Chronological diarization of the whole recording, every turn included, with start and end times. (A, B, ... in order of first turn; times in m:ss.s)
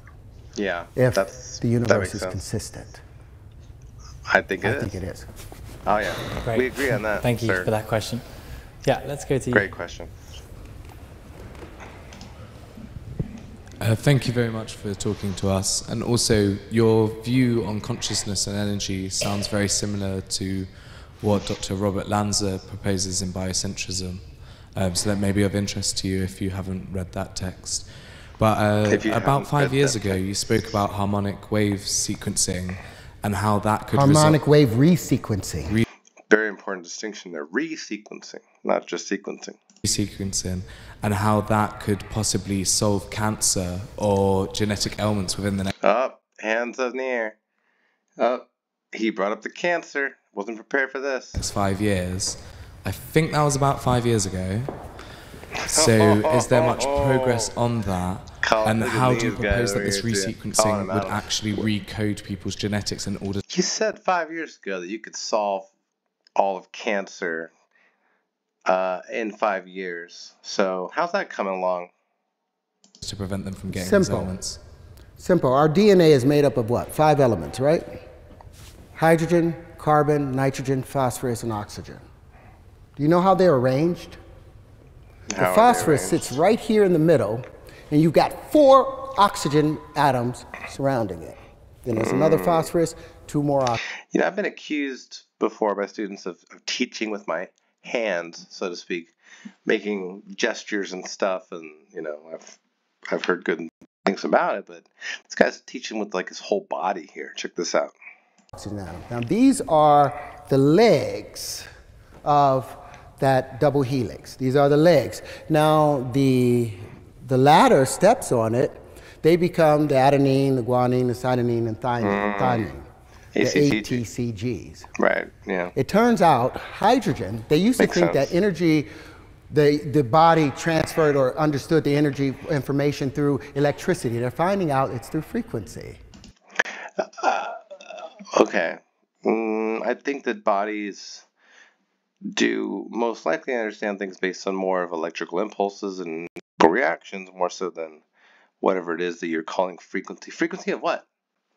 0:00.6-0:02.4 A
0:01.0-0:03.0 B
0:04.3-0:05.0 A
0:04.6-0:05.3 B
0:05.8-0:07.7 A
0:06.4-0:08.3 C
0:08.8-0:09.7 C
0:09.5-0:10.1 A
0:13.8-0:24.2 D
0:24.7-0:32.7 D
0:28.8-0:30.8 A
0:33.2-0:34.4 D
0:33.9-0:35.8 B
0:36.3-0:39.6 A
0:39.8-0:45.7 D
0:45.8-0:47.4 A
0:48.2-0:51.4 A
0:51.4-0:54.7 D
0:55.6-0:57.7 A
0:55.6-1:03.4 D
0:58.4-1:01.7 A
1:03.5-1:05.7 A
1:06.4-1:07.5 A
1:08.6-1:11.9 A
1:13.2-1:14.6 D
1:13.7-1:14.4 B
1:15.2-1:17.8 B
1:18.9-1:22.0 B
1:23.0-1:24.2 B
1:25.3-1:26.4 A
1:25.4-1:33.8 B
1:31.9-1:32.7 A
1:34.1-1:39.1 A
1:39.6-1:42.6 A
1:43.1-1:47.9 A
1:48.6-1:51.6 B
1:52.2-2:04.9 B
2:02.0-2:02.7 A
2:03.3-2:04.0 A
2:05.0-2:05.7 A
2:05.7-2:08.9 B
2:07.8-2:08.3 A
2:09.5-2:16.0 B
2:17.0-2:21.2 A
2:22.3-2:28.0 A
2:28.6-2:31.0 A